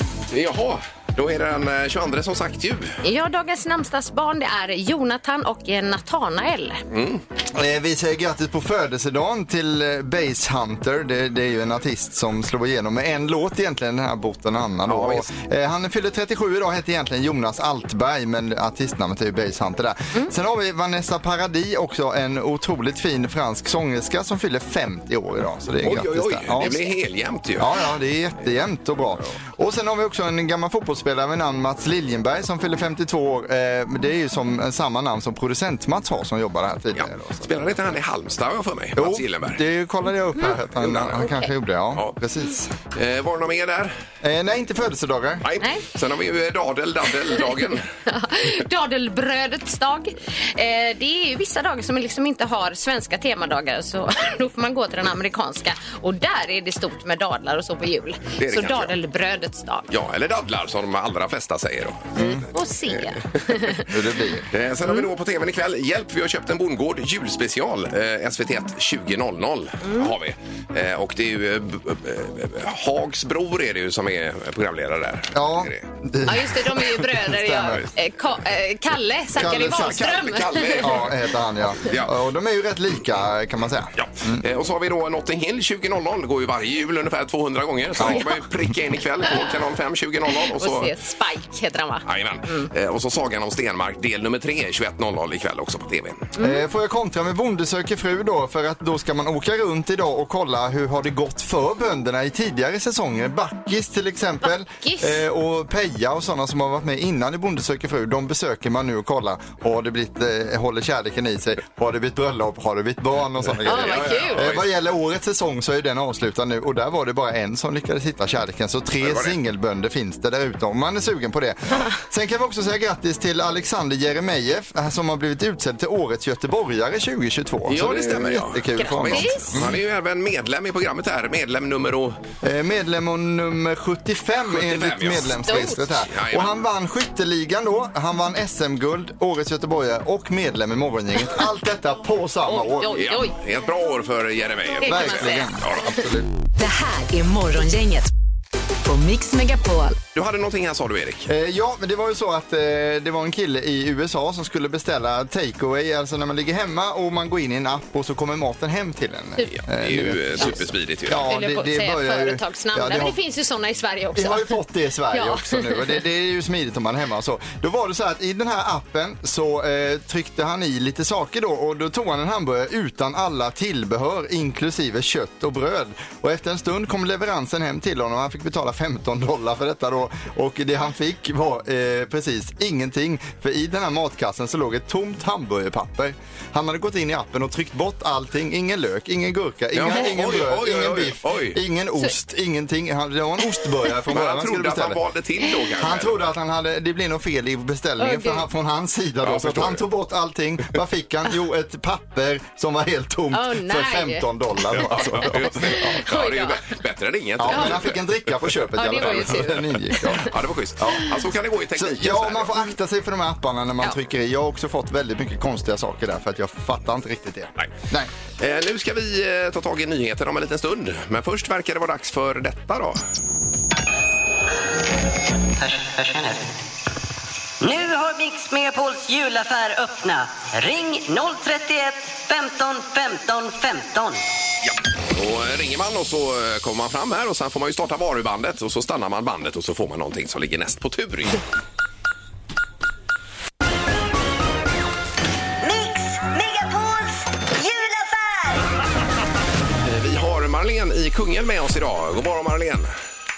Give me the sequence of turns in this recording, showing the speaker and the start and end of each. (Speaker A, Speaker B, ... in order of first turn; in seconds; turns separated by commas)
Speaker A: 0.3-2.9, Speaker B: 3.0-6.8, Speaker A: 6.9-7.2, Speaker C: 7.5-26.8, Speaker A: 14.9-15.2, Speaker A: 25.8-27.7, Speaker C: 27.6-37.5, Speaker A: 37.0-39.6, Speaker C: 39.0-42.7, Speaker A: 40.8-41.3, Speaker B: 41.2-41.5, Speaker A: 42.9-43.9, Speaker C: 44.2-45.4, Speaker A: 45.4-47.8, Speaker B: 48.0-59.9, Speaker A: 58.4-58.9, Speaker A: 59.9-63.4, Speaker C: 62.1-62.5, Speaker B: 62.5-63.9, Speaker C: 63.8-64.5, Speaker A: 64.5-75.8, Speaker B: 69.8-70.1, Speaker C: 75.3-77.8, Speaker B: 76.2-81.0, Speaker C: 79.3-84.4, Speaker A: 79.6-81.1, Speaker A: 81.8-82.1, Speaker A: 84.0-90.9, Speaker C: 88.0-88.3, Speaker B: 90.4-92.7, Speaker A: 92.0-96.3, Speaker C: 96.4-129.8, Speaker B: 104.8-105.2, Speaker A: 113.6-114.7, Speaker B: 113.6-114.5, Speaker A: 119.0-119.3, Speaker A: 127.7-132.2, Speaker B: 128.8-129.6, Speaker C: 132.4-143.0, Speaker A: 134.5-136.5, Speaker B: 135.4-135.8, Speaker B: 142.4-143.3, Speaker A: 142.9-145.9, Speaker B: 144.8-145.6, Speaker C: 144.8-146.3, Speaker D: 146.6-148.1, Speaker D: 148.8-150.0, Speaker A: 150.1-151.3, Speaker C: 151.3-163.2, Speaker A: 159.6-161.3, Speaker B: 161.2-164.6, Speaker C: 164.1-195.0, Speaker B: 165.1-165.8, Speaker A: 189.7-191.6, Speaker A: 194.1-196.2, Speaker C: 195.8-206.0, Speaker B: 198.0-198.4, Speaker A: 199.2-199.8, Speaker B: 203.3-204.3, Speaker A: 204.7-208.0, Speaker B: 204.9-206.6, Speaker C: 207.4-211.1, Speaker B: 207.5-207.8, Speaker B: 208.7-210.2, Speaker A: 209.0-209.4, Speaker A: 210.2-212.6, Speaker C: 211.7-218.1, Speaker A: 218.4-223.0, Speaker E: 225.6-226.4, Speaker E: 227.6-234.2, Speaker A: 234.6-241.4, Speaker E: 245.6-248.7, Speaker A: 249.8-252.9